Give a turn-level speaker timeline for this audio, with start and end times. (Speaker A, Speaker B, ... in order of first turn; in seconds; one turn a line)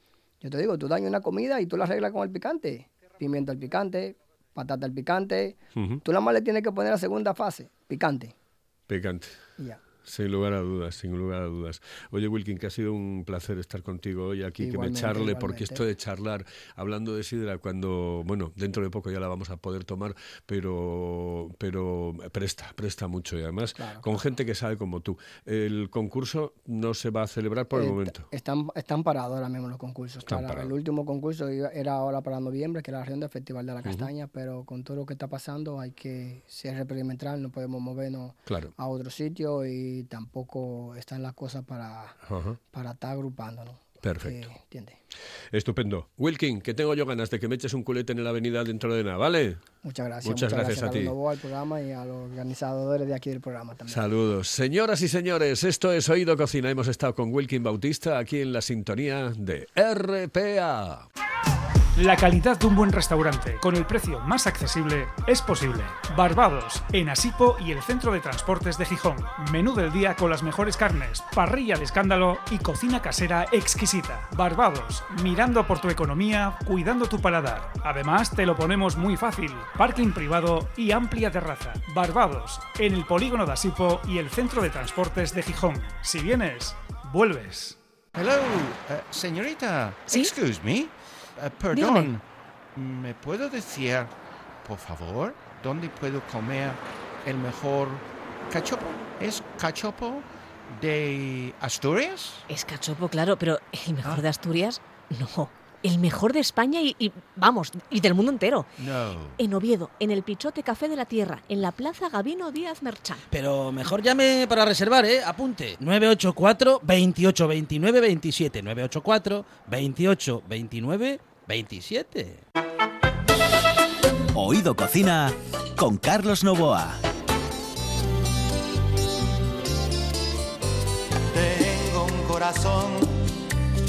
Speaker A: 0.4-8.3
Speaker B: 5.8-6.0
Speaker B: 8.9-9.3
Speaker B: 10.0-28.2
Speaker A: 14.6-15.8
Speaker A: 23.8-24.2
Speaker A: 27.7-42.2
Speaker B: 30.3-30.7
Speaker B: 33.8-34.1
Speaker B: 38.5-38.7
Speaker B: 42.2-42.6
Speaker A: 42.7-45.0
Speaker B: 44.0-44.5
Speaker B: 45.5-49.6
Speaker A: 49.8-54.0
Speaker B: 50.2-51.1
Speaker B: 53.9-61.1
Speaker C: 62.0-87.8
Speaker D: 88.1-92.2
Speaker E: 91.7-92.1
Speaker D: 92.7-102.4
Speaker E: 102.5-108.7
Speaker D: 108.8-109.4
Speaker E: 109.4-113.2
Speaker F: 113.3-122.4
Speaker G: 124.3-127.0
Speaker H: 131.3-133.3